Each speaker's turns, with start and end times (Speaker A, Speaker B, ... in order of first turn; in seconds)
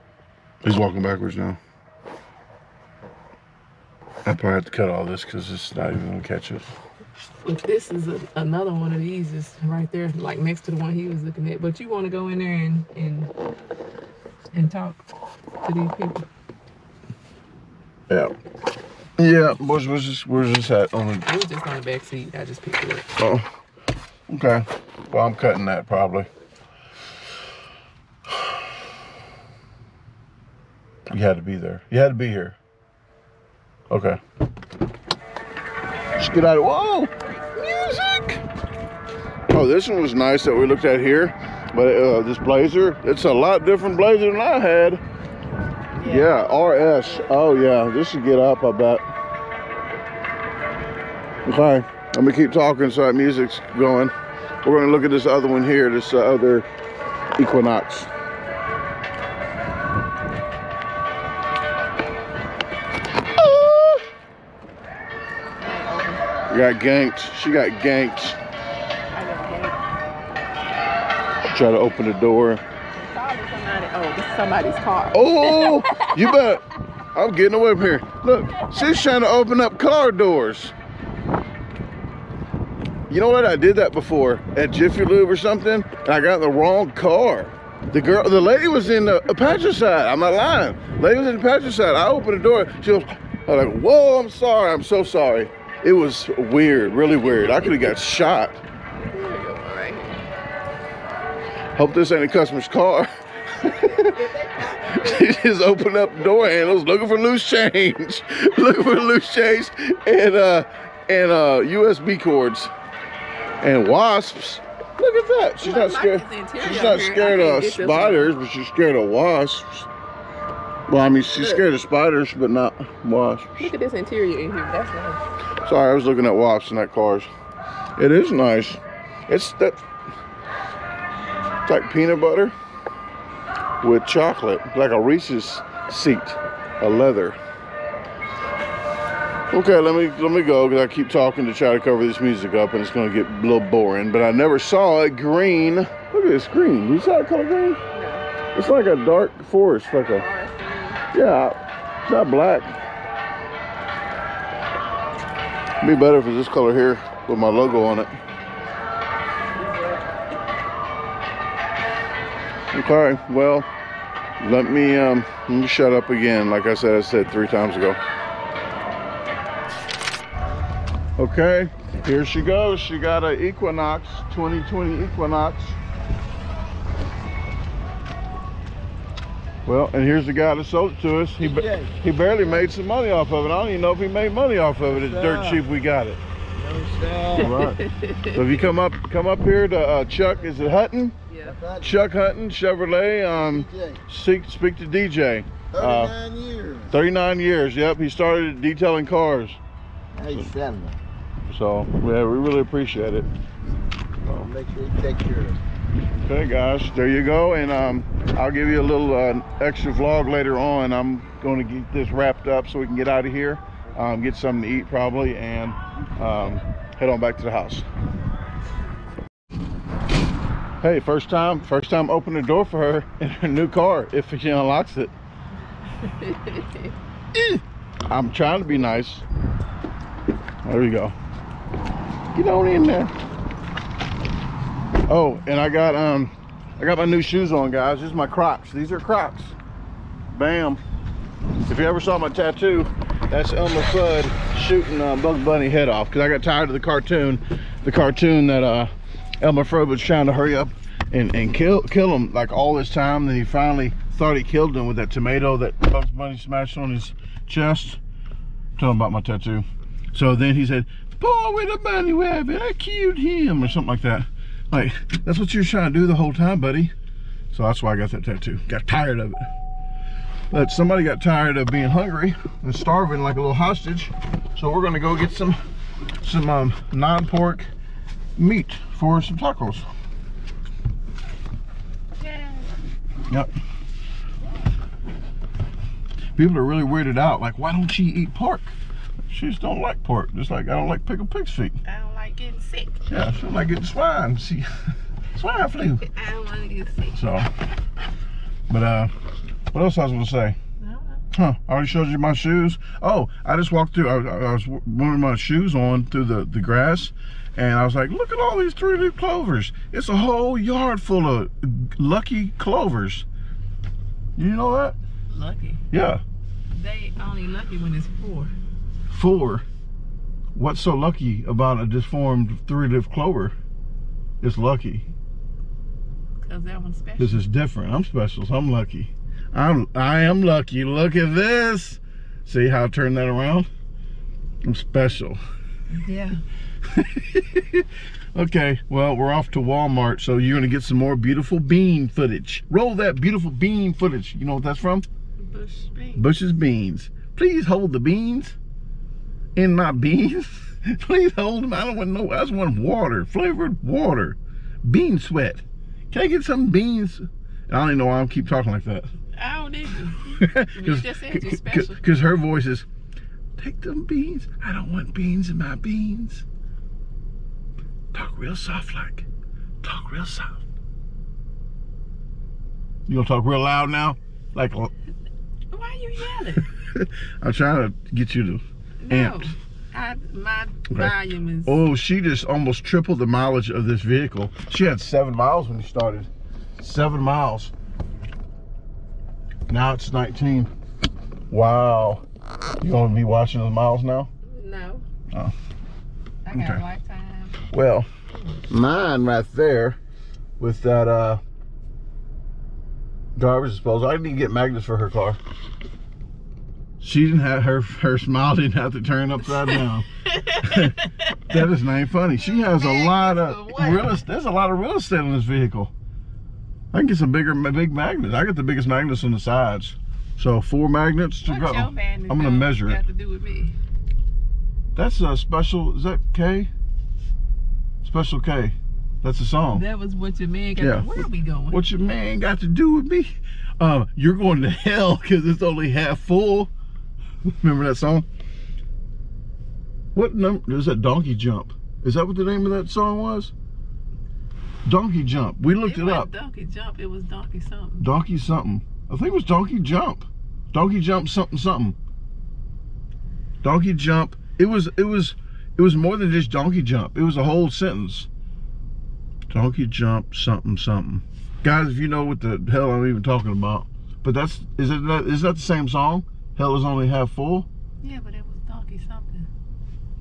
Speaker A: 0.6-1.6, 4.2-6.7, 19.2-21.2, 23.2-23.5, 24.3-26.3, 31.1-32.6, 33.9-34.2, 36.1-38.4, 39.5-45.0, 46.0-49.1, 51.4-56.7, 57.4-58.1, 63.4-64.0, 66.5-68.4, 71.4-72.6, 75.1-80.7, 83.1-98.6, 101.7-104.2, 104.8-112.7, 113.6-119.9, 120.9-123.7, 125.6-127.3, 128.0-129.8, 131.6-132.5, 133.8-137.4, 139.5-147.8, 148.5-150.2, 151.1-152.7, 155.8-158.1, 162.7-163.7, 164.4-168.0, 171.2-175.8, 179.6-186.2, 187.4-191.2, 191.8-196.1, 196.9-199.6, 201.5-203.3, 206.2-217.8, 220.8-225.1, 227.3-229.2, 230.6-231.1, 232.3-233.1, 235.1-239.6, 240.3-240.8, 241.7-258.0, 258.8-266.9, 267.5-269.5, 270.5-275.6, 276.2-277.7, 278.4-279.9, 286.4-288.7, 289.3-291.8, 293.1-294.7, 295.3-296.0, 297.1-297.5, 298.7-299.1, 299.7-300.6, 301.3-313.2, 314.4-315.0, 315.9-316.2, 319.1-319.6, 320.5-323.5, 324.4-325.1, 327.2-333.7, 334.6-335.4, 336.9-345.1, 346.1-348.6, 349.6-359.1, 360.4-362.9, 363.6-366.4, 368.1-369.2, 369.8-370.6, 373.1-374.9, 376.7-379.5, 381.6-387.7, 389.7-390.7, 391.5-392.2, 392.8-394.3, 396.5-396.8, 397.7-398.1, 398.7-400.0, 400.6-401.4, 403.4-405.4, 407.0-410.1, 410.6-411.0, 411.5-415.9, 416.9-423.0, 424.9-426.7, 428.0-429.8, 430.8-436.7, 437.4-438.3, 440.1-443.5, 444.9-446.3, 448.0-452.0, 453.6-458.3, 459.5-467.7
Speaker B: 7.4-13.3, 14.5-15.0, 15.6-16.2, 21.2-23.1, 45.9-47.3, 65.6-66.3, 69.1-70.0, 72.9-76.5, 78.6-79.0, 97.6-97.9, 99.0-100.2, 103.9-105.4, 115.6-118.3, 121.4-121.6, 123.6-125.2, 147.9-148.3, 150.1-151.1, 187.4-188.5, 191.3-191.6, 226.0-226.9, 282.2-282.7, 291.8-293.0, 296.0-297.2, 300.8-301.2, 315.3-315.8, 316.7-318.5, 326.4-327.4, 335.9-336.4, 345.4-346.3, 359.3-362.0, 375.7-376.7, 379.0-381.8, 394.4-395.0, 396.4-397.6, 409.5-411.6, 412.4-414.2, 421.4-423.8, 429.7-431.8, 445.8-448.1, 468.0-469.5
Speaker C: 181.4-182.0, 184.8-185.6, 186.6-187.6, 190.2-190.7, 191.4-192.1, 193.3-194.0, 195.7-197.0, 200.1-201.0, 204.2-205.6